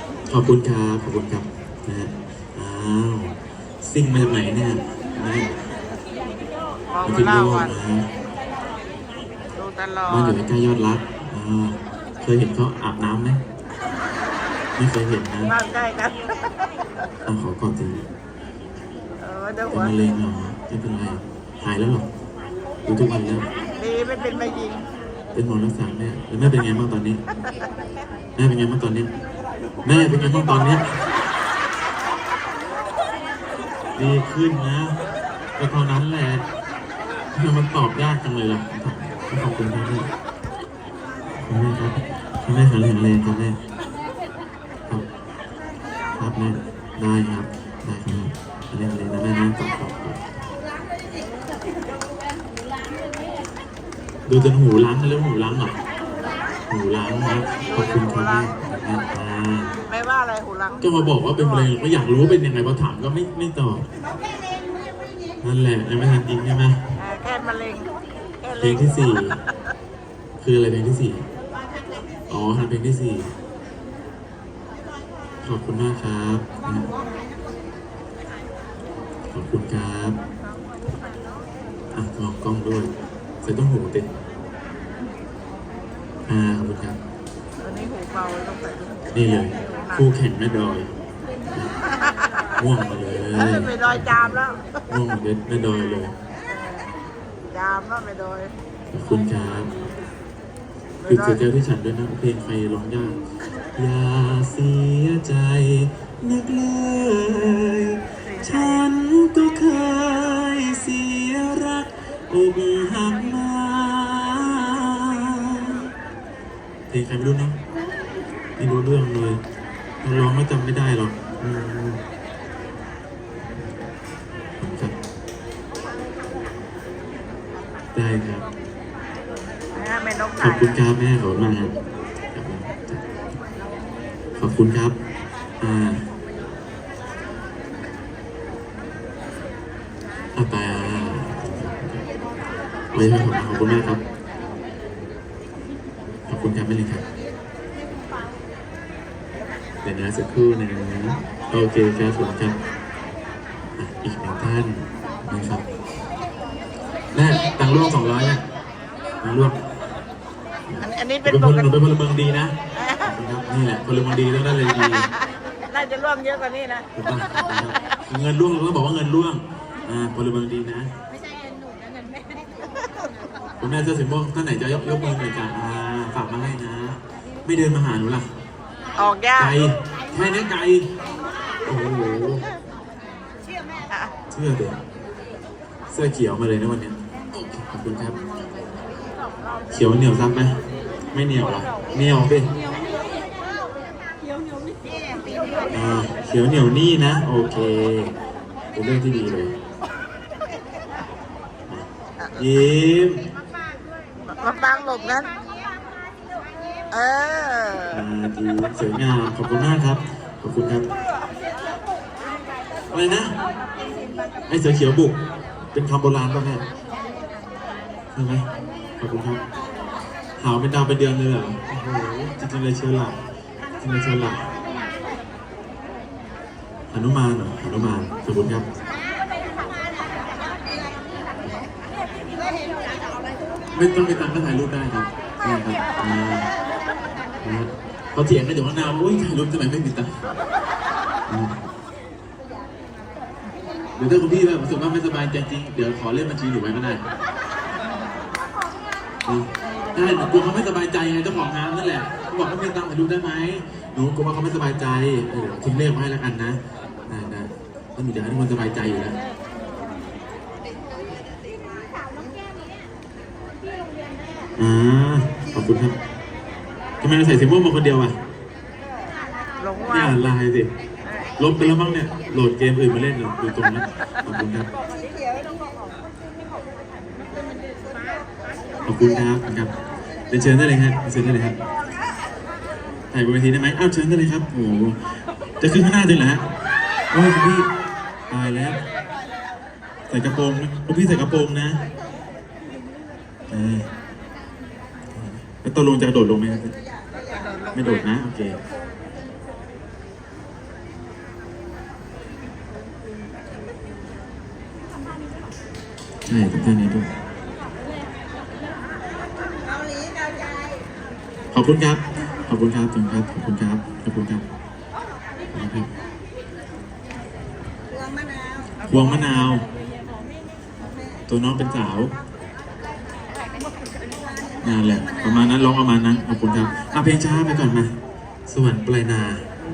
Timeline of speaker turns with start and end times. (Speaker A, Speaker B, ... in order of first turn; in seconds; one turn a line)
Speaker A: 0.3-5.7
Speaker B: 7.0-7.7
Speaker A: 7.0-8.1
Speaker B: 9.6-10.4
Speaker A: 10.1-13.4
Speaker A: 14.8-15.5
Speaker B: 15.4-16.2
Speaker A: 17.3-18.1
Speaker B: 19.2-19.9
Speaker A: 19.7-22.1
Speaker A: 22.9-23.5
Speaker B: 23.8-24.9
Speaker A: 25.3-27.2
Speaker A: 28.4-29.1
Speaker A: 29.8-30.9
Speaker A: 34.0-35.0
Speaker A: 35.6-36.5
Speaker A: 37.3-40.1
Speaker A: 41.4-43.6
Speaker A: 46.1-50.2
Speaker A: 54.3-55.8
Speaker A: 56.7-59.8
Speaker B: 57.7-58.5
Speaker B: 59.9-60.8
Speaker A: 60.8-63.9
Speaker A: 65.4-66.8
Speaker B: 67.0-67.9
Speaker B: 68.4-68.9
Speaker A: 68.6-69.4
Speaker A: 70.4-71.3
Speaker A: 72.3-73.3
Speaker A: 75.4-76.9
Speaker A: 79.3-80.2
Speaker A: 81.9-84.1
Speaker A: 86.3-87.0
Speaker B: 87.6-90.0
Speaker A: 89.1-90.9
Speaker A: 92.6-96.2
Speaker B: 93.3-94.7
Speaker B: 96.5-96.9
Speaker B: 97.5-98.6
Speaker A: 98.9-99.7
Speaker B: 101.0-101.4
Speaker A: 101.1-103.2
Speaker A: 103.8-115.8
Speaker A: 116.9-117.6
Speaker A: 118.6-119.4
Speaker A: 120.0-122.0
Speaker A: 124.6-124.9
Speaker A: 128.0-128.5
Speaker B: 129.8-130.7
Speaker A: 130.4-131.8
Speaker A: 132.3-133.0
Speaker A: 134.4-135.0
Speaker A: 135.6-136.1
Speaker A: 140.4-142.0
Speaker A: 142.9-144.0
Speaker A: 146.3-147.1
Speaker A: 149.8-152.6
Speaker A: 153.8-155.7
Speaker A: 157.1-158.4
Speaker A: 159.2-159.6
Speaker A: 160.7-165.1
Speaker B: 160.8-161.7
Speaker B: 162.8-163.0
Speaker B: 165.7-166.9
Speaker A: 166.9-170.9
Speaker A: 173.6-178.3
Speaker B: 179.0-179.6
Speaker A: 179.4-180.9
Speaker A: 181.7-182.4
Speaker A: 184.3-184.8
Speaker A: 185.9-188.2
Speaker A: 189.7-190.6
Speaker A: 191.1-192.6
Speaker A: 195.7-198.2
Speaker A: 198.7-199.6
Speaker A: 201.7-203.3
Speaker B: 204.3-205.3
Speaker B: 206.9-208.0
Speaker A: 207.9-210.9
Speaker A: 212.9-213.4
Speaker A: 214.5-215.2
Speaker A: 215.7-216.7
Speaker A: 218.1-219.4
Speaker A: 220.4-223.2
Speaker A: 223.8-224.5
Speaker A: 226.9-228.7
Speaker A: 233.7-236.5
Speaker A: 237.4-240.2
Speaker A: 241.3-241.6
Speaker A: 244.0-247.0
Speaker A: 249.3-259.2
Speaker A: 264.6-266.0
Speaker A: 267.0-268.2
Speaker B: 269.6-270.2
Speaker A: 269.9-270.7
Speaker A: 271.4-274.7
Speaker A: 278.9-279.7
Speaker A: 280.3-281.6
Speaker A: 283.1-285.0
Speaker A: 285.6-286.5
Speaker A: 287.1-287.7
Speaker A: 288.3-288.8
Speaker A: 290.1-291.9
Speaker A: 293.5-293.9
Speaker A: 295.1-296.8
Speaker A: 297.7-298.6
Speaker A: 306.3-307.1
Speaker A: 311.5-314.4
Speaker A: 315.5-315.9
Speaker A: 318.9-319.7
Speaker A: 321.3-322.1
Speaker A: 324.6-328.0
Speaker A: 328.5-329.5